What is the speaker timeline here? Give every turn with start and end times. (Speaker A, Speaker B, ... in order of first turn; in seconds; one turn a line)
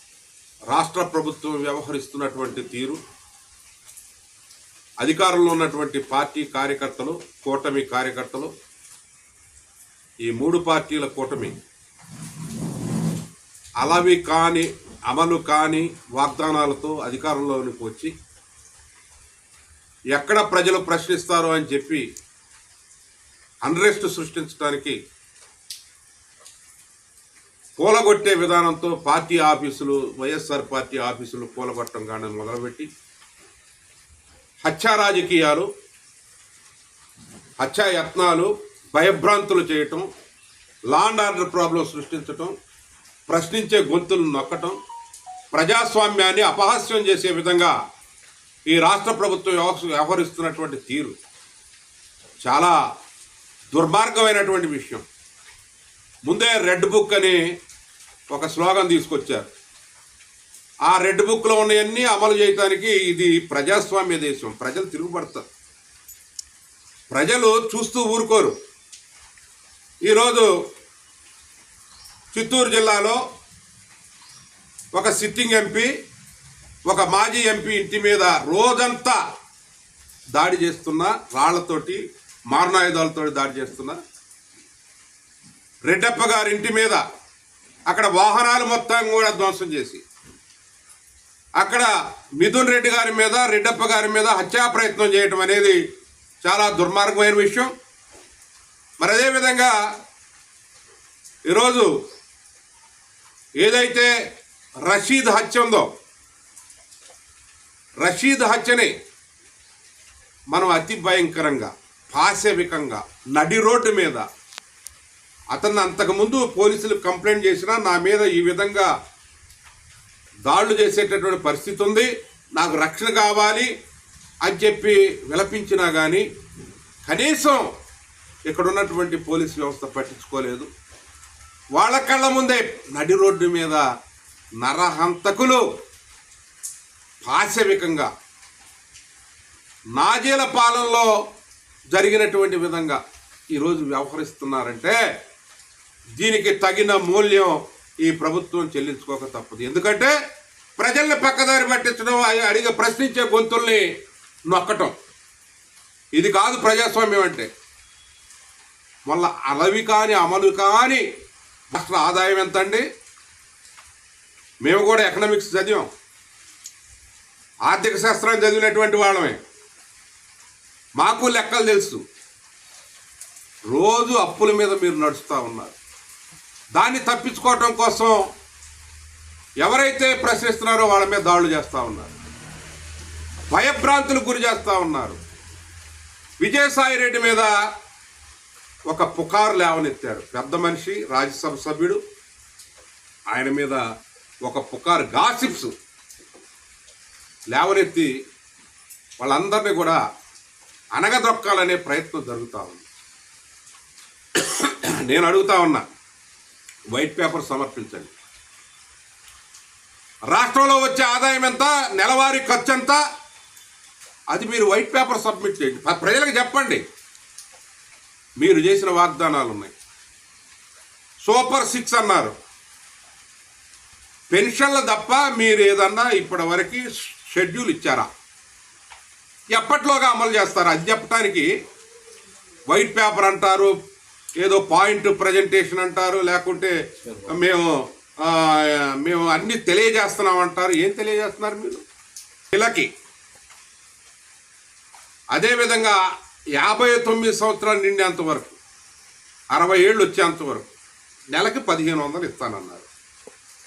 Speaker A: 0.7-3.0
Speaker A: 5.0-8.5
Speaker A: 10.2-11.5
Speaker A: 13.8-18.1
Speaker A: 20.1-22.1
Speaker A: 23.6-25.0
Speaker A: 27.8-32.9
Speaker A: 34.6-35.7
Speaker A: 37.6-40.0
Speaker A: 40.9-42.5
Speaker A: 43.3-44.8
Speaker A: 45.5-47.7
Speaker A: 48.7-51.1
Speaker A: 52.4-52.8
Speaker A: 53.7-55.0
Speaker A: 56.2-57.4
Speaker A: 58.3-59.5
Speaker A: 60.9-65.5
Speaker A: 67.1-68.5
Speaker A: 70.0-70.5
Speaker A: 72.3-73.2
Speaker A: 74.9-75.9
Speaker A: 76.8-79.2
Speaker A: 80.3-84.0
Speaker A: 85.8-87.0
Speaker A: 87.9-90.0
Speaker A: 91.6-95.8
Speaker A: 96.4-97.7
Speaker A: 99.0-99.8
Speaker A: 101.5-101.9
Speaker A: 103.6-104.1
Speaker A: 104.8-105.9
Speaker A: 108.0-108.9
Speaker A: 110.5-114.2
Speaker A: 115.5-118.9
Speaker A: 120.5-123.7
Speaker A: 124.4-126.2
Speaker A: 127.0-127.7
Speaker A: 128.5-130.7
Speaker A: 131.7-133.8
Speaker A: 134.6-135.6
Speaker A: 137.2-138.1
Speaker A: 139.9-141.1
Speaker A: 141.9-143.0
Speaker A: 143.5-145.0
Speaker A: 146.2-150.1
Speaker A: 150.8-153.9
Speaker A: 154.5-154.9
Speaker A: 156.1-157.5
Speaker A: 159.1-161.0
Speaker A: 161.7-162.8
Speaker A: 164.6-165.9
Speaker A: 167.6-169.4
Speaker A: 171.0-172.0
Speaker A: 173.7-175.7
Speaker A: 176.7-178.2
Speaker A: 179.6-182.1
Speaker A: 183.5-185.2
Speaker A: 186.4-187.5
Speaker A: 188.9-192.0
Speaker A: 193.3-193.8
Speaker A: 194.4-195.7
Speaker A: 197.5-198.2
Speaker A: 199.2-200.0
Speaker A: 200.9-202.8
Speaker A: 204.3-205.8
Speaker A: 206.9-208.1
Speaker A: 210.3-213.0
Speaker A: 214.3-216.8
Speaker A: 218.4-219.7
Speaker A: 221.2-222.3
Speaker A: 224.3-228.1
Speaker A: 229.5-231.5
Speaker A: 232.7-233.7
Speaker A: 234.4-241.8
Speaker A: 242.5-242.9
Speaker A: 245.3-246.0
Speaker A: 246.5-248.6
Speaker A: 249.5-250.7
Speaker A: 251.3-252.9